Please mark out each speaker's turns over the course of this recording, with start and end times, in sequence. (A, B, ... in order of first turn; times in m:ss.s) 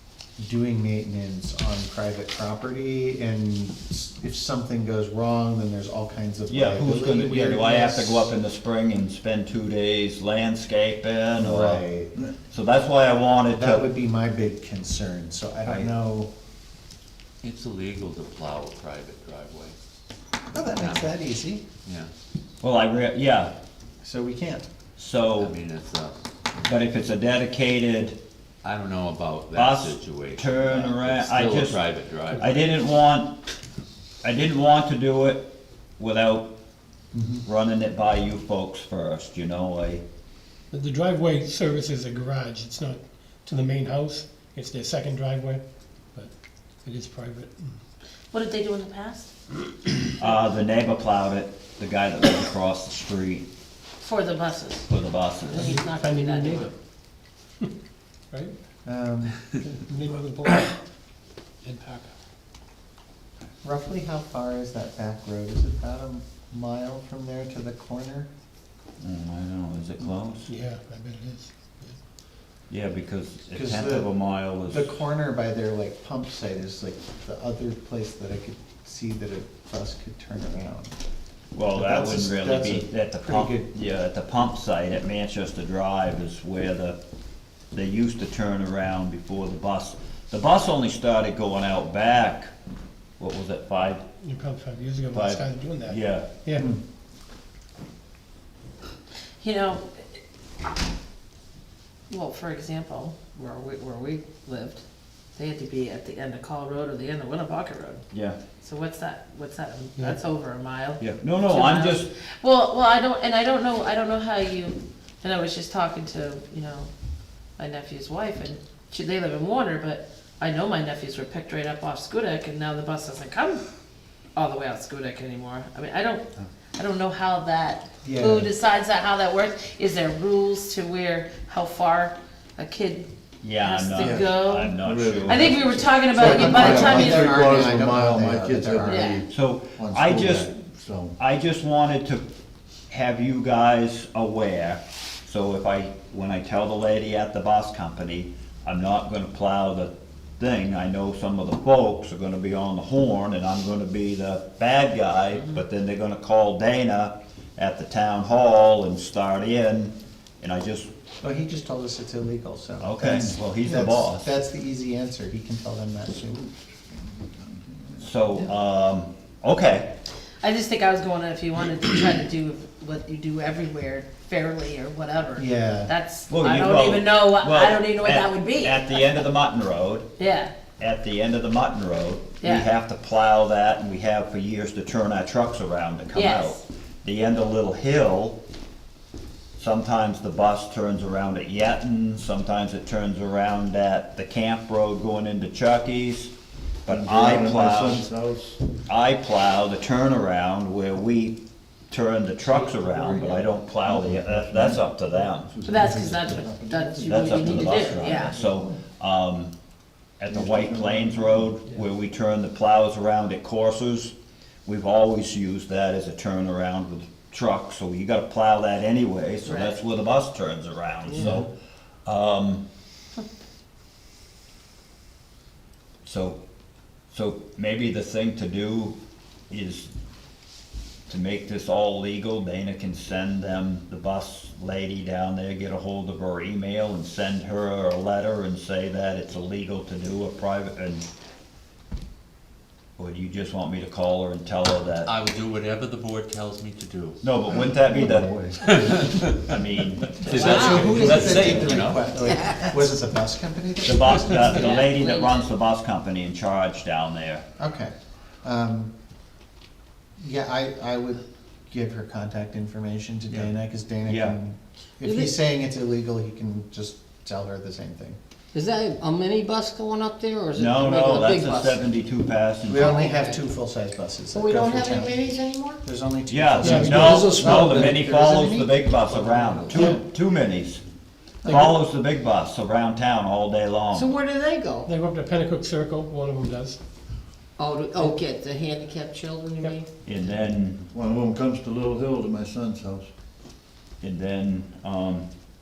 0:00.4-0:08.3 A
0:06.5-0:11.8 B
0:11.4-0:12.1 A
0:12.5-0:13.9 B
0:13.5-0:16.3 A
0:15.6-0:15.9 B
0:17.4-0:19.8 C
0:20.5-0:21.6 A
0:20.6-0:21.1 C
0:21.8-0:22.1 C
0:22.6-0:23.5 B
0:24.0-0:24.6 A
0:25.0-0:25.5 B
0:25.4-0:26.1 C
0:26.6-0:28.2 B
0:28.6-0:32.6 C
0:29.6-0:31.8 B
0:32.4-0:33.3 B
0:34.2-0:36.5 B
0:37.1-0:37.4 A
0:37.4-0:40.0 B
0:40.7-0:45.6 D
0:46.8-0:47.8 D
0:48.3-0:49.3 E
0:50.2-0:53.4 B
0:54.0-0:54.9 E
0:54.9-0:55.8 B
0:55.5-0:56.7 E
0:55.5-0:56.7 D
0:58.8-0:59.4 A
0:59.6-1:00.8 D
1:01.6-1:02.1 D
1:03.6-1:08.3 A
1:09.0-1:10.5 B
1:10.5-1:12.0 D
1:12.7-1:14.9 B
1:13.5-1:14.1 A
1:14.7-1:20.9 A
1:21.5-1:27.0 B
1:21.7-1:23.7 A
1:27.7-1:32.5 B
1:33.2-1:34.0 B
1:34.2-1:36.7 D
1:35.1-1:36.3 B
1:39.4-1:40.2 E
1:42.1-1:44.8 E
1:45.4-1:48.0 E
1:48.1-1:48.4 B
1:48.6-1:56.9 E
1:51.0-1:52.1 B
1:57.6-2:03.6 E
2:04.4-2:17.4 E
2:08.0-2:08.5 A
2:13.4-2:15.6 B
2:14.0-2:19.3 F
2:16.1-2:19.2 A
2:18.8-2:19.2 E
2:19.3-2:20.5 B
2:19.8-2:20.5 A
2:20.1-2:21.1 F
2:21.2-2:22.2 B
2:22.9-2:40.9 B
2:35.3-2:35.6 E
2:41.2-2:48.4 A
2:42.8-2:44.3 B
2:48.0-2:49.9 B
2:50.4-2:59.2 E
2:55.4-2:55.9 A
2:56.3-3:00.1 B
3:00.2-3:00.5 E
3:00.8-3:08.4 B
3:02.4-3:02.7 E
3:06.1-3:06.6 E
3:09.6-3:16.3 B
3:16.8-3:18.0 B
3:16.9-3:18.6 F
3:18.9-3:21.4 B
3:21.9-3:25.5 B
3:23.0-3:23.4 E
3:23.2-3:28.8 F
3:25.6-3:28.3 E
3:27.0-3:29.5 B
3:30.2-3:34.1 B
3:30.3-3:31.8 F
3:34.6-3:41.5 B
3:39.4-3:39.8 E
3:41.1-3:41.4 F
3:42.0-3:42.6 B
3:46.0-3:46.4 B
3:47.1-3:49.0 B
3:49.5-3:49.9 B
3:51.1-4:01.1 B
4:03.0-4:05.1 B
4:05.0-4:07.3 C
4:07.2-4:08.3 B
4:07.5-4:08.6 F
4:08.6-4:09.6 C
4:09.5-4:11.8 B
4:10.1-4:12.2 C
4:10.2-4:14.8 A
4:10.3-4:11.0 E
4:13.8-4:17.4 B
4:14.4-4:15.5 E
4:17.6-4:18.9 A
4:20.2-4:28.2 A
4:24.1-4:24.4 B
4:25.0-4:25.4 G
4:28.5-4:31.8 G
4:30.6-4:32.9 B
4:32.7-4:35.2 A
4:32.8-4:33.4 G
4:34.3-4:35.8 G
4:35.8-4:39.9 A
4:36.3-4:40.8 B
4:36.6-4:37.1 D
4:36.9-4:38.0 G
4:39.7-4:40.0 D
4:41.4-4:44.1 B
4:41.5-4:41.8 D
4:43.9-4:44.9 G
4:44.8-4:46.8 D
4:47.6-4:49.9 G
4:50.0-4:50.8 B
4:50.9-4:53.1 F
4:54.0-4:55.2 B